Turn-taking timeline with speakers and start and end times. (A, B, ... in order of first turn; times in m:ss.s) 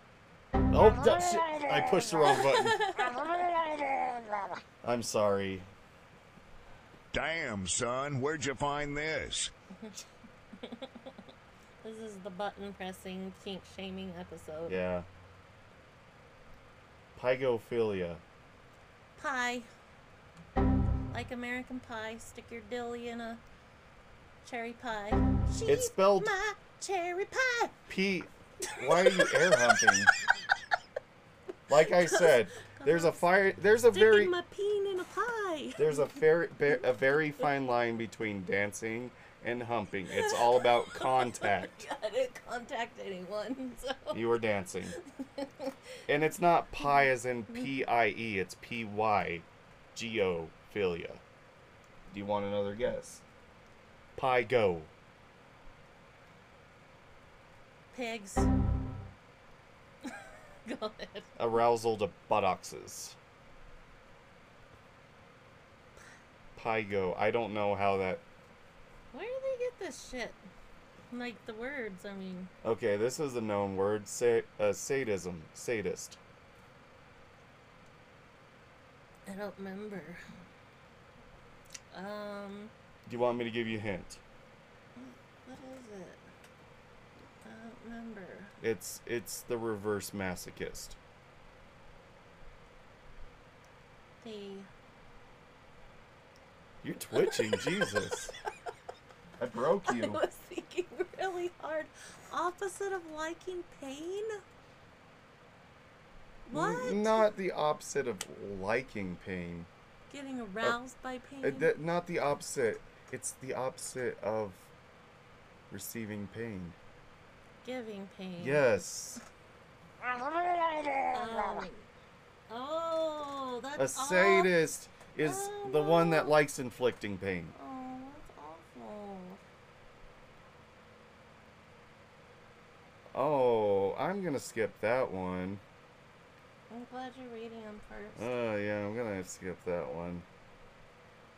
0:00.7-0:02.8 A
0:02.3-0:03.4 B
0:04.8-0:05.7 A
0:07.1-0:09.5 C
0:10.6-0:11.2 B
0:11.8-0:14.8 B
0:14.7-0:15.1 A
0:17.1-0:18.2 A
0:19.2-0:19.7 B
0:21.1-0:23.4 B
0:24.4-0:27.8 B
0:25.6-0:26.3 A
0:27.9-0:30.1 A
0:28.6-0:29.9 B
0:31.7-0:34.3 A
0:32.0-0:33.3 B
0:33.9-0:36.0 B
0:35.8-0:41.8 A
0:40.1-0:44.3 B
0:44.1-0:45.0 A
0:45.0-0:45.8 B
0:46.1-0:51.2 A
0:46.8-0:47.7 B
0:52.1-0:53.2 A
0:54.2-0:54.9 A
0:57.9-0:58.5 B
1:00.0-1:01.3 B
1:01.4-1:03.2 A
1:06.6-1:08.2 A
1:09.1-1:10.4 B
1:11.1-1:12.5 B
1:12.6-1:16.2 A
1:19.3-1:20.2 B
1:21.9-1:22.7 B
1:23.0-1:24.2 A
1:25.0-1:26.2 B
1:27.4-1:28.5 B
1:28.6-1:31.0 A
1:34.2-1:34.7 B
1:36.8-1:38.3 A
1:37.1-1:38.0 B
1:39.4-1:40.2 A
1:39.8-1:44.4 B
1:46.5-1:47.3 B
1:46.5-1:49.7 A
1:50.1-1:51.7 B
1:51.4-1:54.7 A
1:55.7-1:56.8 A
1:57.6-1:58.6 B
1:58.4-1:59.2 A
2:01.1-2:01.9 B
2:02.5-2:04.5 B
2:03.8-2:07.5 A
2:05.2-2:06.4 B
2:07.5-2:09.4 B
2:13.1-2:15.6 A
2:16.7-2:18.3 B
2:18.2-2:20.2 A